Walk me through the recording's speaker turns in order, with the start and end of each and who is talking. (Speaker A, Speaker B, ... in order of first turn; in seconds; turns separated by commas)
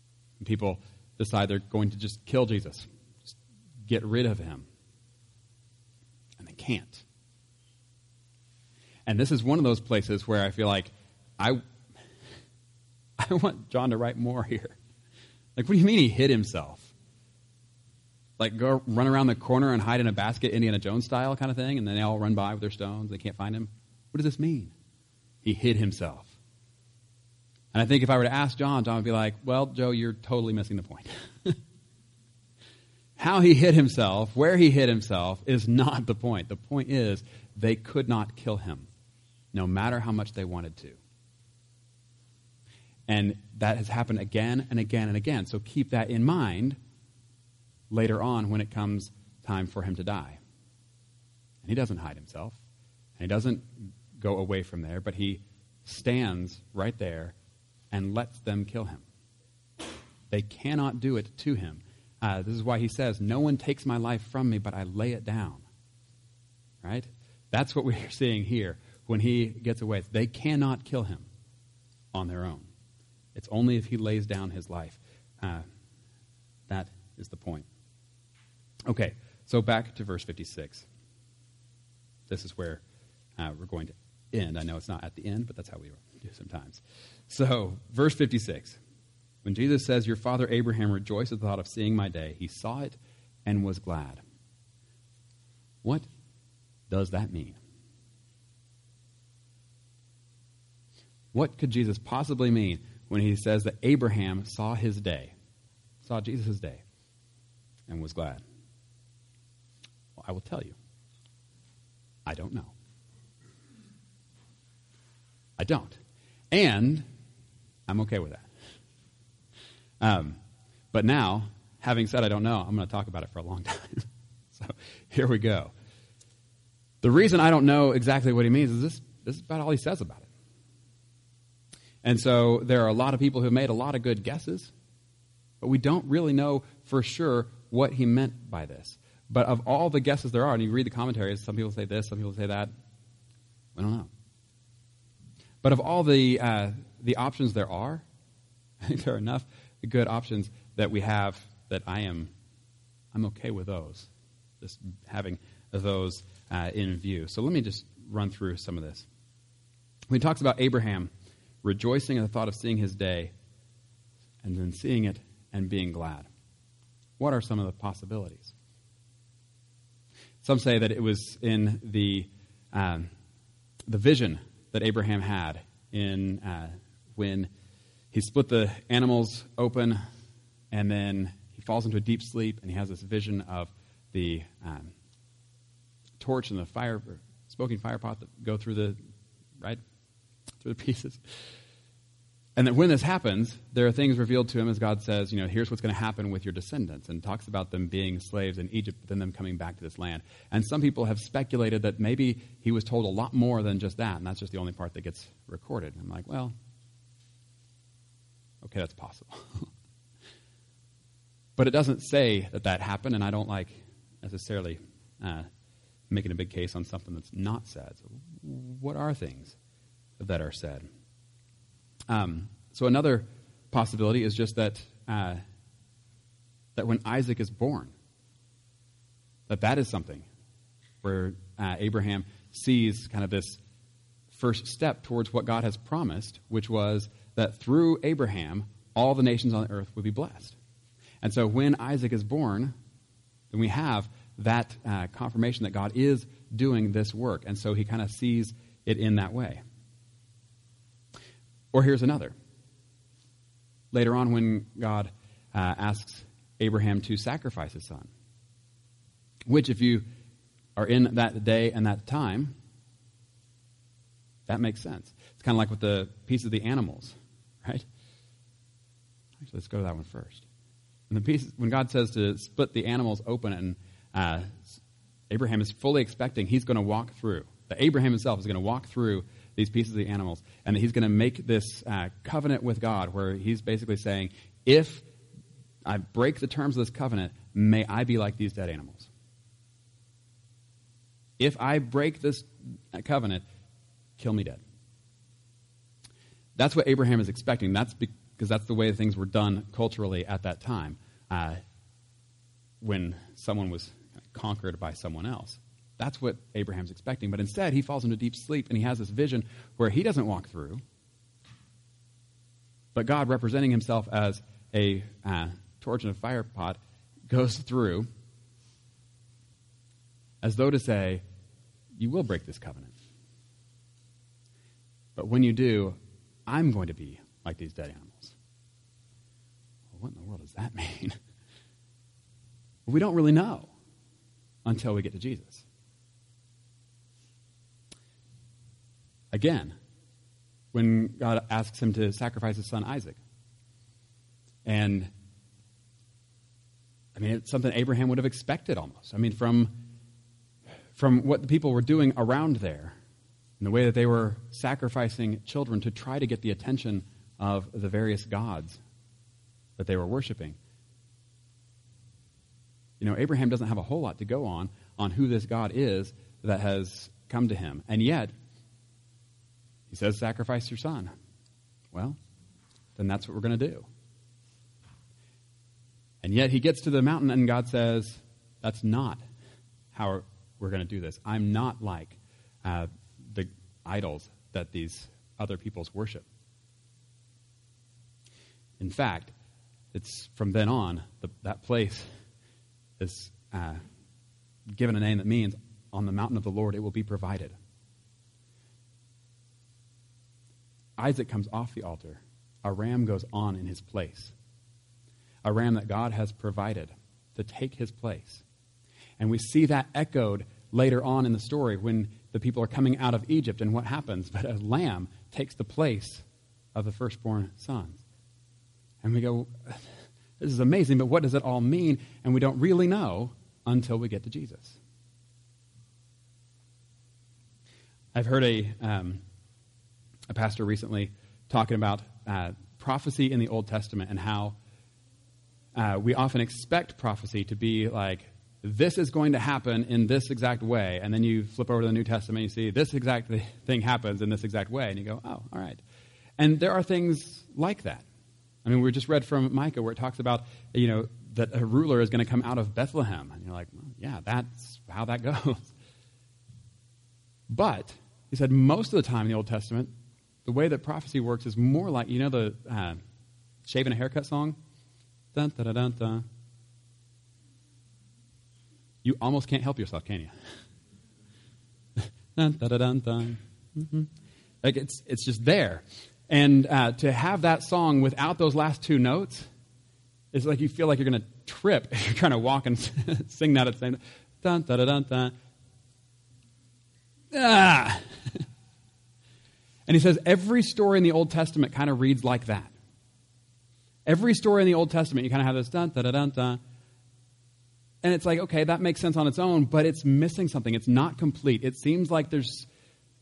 Speaker A: 0.4-3.3, Speaker A: 3.9-4.7, Speaker A: 6.4-7.0, Speaker A: 9.1-11.6, Speaker A: 13.2-14.8, Speaker A: 15.6-16.9, Speaker A: 18.4-24.7, Speaker A: 25.4-26.4, Speaker A: 27.7-31.6, Speaker A: 33.2-38.9, Speaker A: 39.5-41.0, Speaker A: 43.1-46.8, Speaker A: 47.9-50.4, Speaker A: 51.6-52.6, Speaker A: 53.2-57.3, Speaker A: 57.9-59.0, Speaker A: 60.3-65.6, Speaker A: 66.8-71.3, Speaker A: 72.1-72.7, Speaker A: 73.3-75.7, Speaker A: 76.7-77.7, Speaker A: 78.9-80.9, Speaker A: 82.3-82.8, Speaker A: 83.4-88.8, Speaker A: 89.4-94.2, Speaker A: 96.9-97.6, Speaker A: 101.3-105.3, Speaker A: 106.0-106.8, Speaker A: 107.9-108.4, Speaker A: 110.2-110.8, Speaker A: 112.2-112.7, Speaker A: 115.6-116.0, Speaker A: 116.5-117.0, Speaker A: 117.9-118.5, Speaker A: 120.0-120.4, Speaker A: 120.9-125.7, Speaker A: 127.0-130.3, Speaker A: 132.0-134.7, Speaker A: 135.6-142.7, Speaker A: 143.8-144.1, Speaker A: 145.6-148.0, Speaker A: 148.8-152.3, Speaker A: 153.1-154.1, Speaker A: 154.6-159.1, Speaker A: 160.1-161.1, Speaker A: 161.6-163.3, Speaker A: 164.4-166.3, Speaker A: 167.2-168.5, Speaker A: 170.4-173.1, Speaker A: 173.9-177.5, Speaker A: 178.1-180.0, Speaker A: 180.7-184.9, Speaker A: 186.2-189.0, Speaker A: 190.6-191.2, Speaker A: 192.6-206.5, Speaker A: 208.6-209.7, Speaker A: 211.6-215.5, Speaker A: 216.1-219.6, Speaker A: 220.2-220.8, Speaker A: 222.1-225.4, Speaker A: 226.8-227.9, Speaker A: 229.5-230.3, Speaker A: 231.0-233.6, Speaker A: 234.3-240.6, Speaker A: 241.2-242.7, Speaker A: 243.5-249.6, Speaker A: 251.7-252.3, Speaker A: 253.9-258.1, Speaker A: 259.5-260.0, Speaker A: 260.8-262.5, Speaker A: 264.5-267.9, Speaker A: 269.4-270.4, Speaker A: 271.1-285.0, Speaker A: 285.8-289.1, Speaker A: 291.4-293.4, Speaker A: 294.2-294.6, Speaker A: 296.6-301.6, Speaker A: 302.8-310.8, Speaker A: 312.9-318.1, Speaker A: 320.4-321.2, Speaker A: 322.0-322.9, Speaker A: 325.1-325.9, Speaker A: 326.5-328.4, Speaker A: 329.9-331.1, Speaker A: 332.9-333.7, Speaker A: 334.6-335.6, Speaker A: 339.3-339.7, Speaker A: 340.7-343.2, Speaker A: 344.6-345.1, Speaker A: 347.1-349.8, Speaker A: 350.9-352.9, Speaker A: 353.6-358.8, Speaker A: 359.8-360.6, Speaker A: 363.0-368.3, Speaker A: 369.9-371.1, Speaker A: 371.9-372.2, Speaker A: 372.9-373.9, Speaker A: 376.2-379.2, Speaker A: 379.9-386.2, Speaker A: 388.8-389.3, Speaker A: 389.9-392.1, Speaker A: 393.0-393.8, Speaker A: 394.7-397.5, Speaker A: 401.0-404.3, Speaker A: 405.4-408.4, Speaker A: 409.2-418.0, Speaker A: 419.0-424.8, Speaker A: 428.1-429.2, Speaker A: 430.3-434.5, Speaker A: 435.7-445.8, Speaker A: 446.4-448.0, Speaker A: 448.6-455.7, Speaker A: 457.5-459.9, Speaker A: 460.4-463.0, Speaker A: 463.6-464.6, Speaker A: 465.3-466.2, Speaker A: 469.0-470.3, Speaker A: 472.0-474.1, Speaker A: 474.6-479.5, Speaker A: 480.3-485.3, Speaker A: 487.3-488.4, Speaker A: 489.9-492.7, Speaker A: 494.1-496.6, Speaker A: 498.0-502.7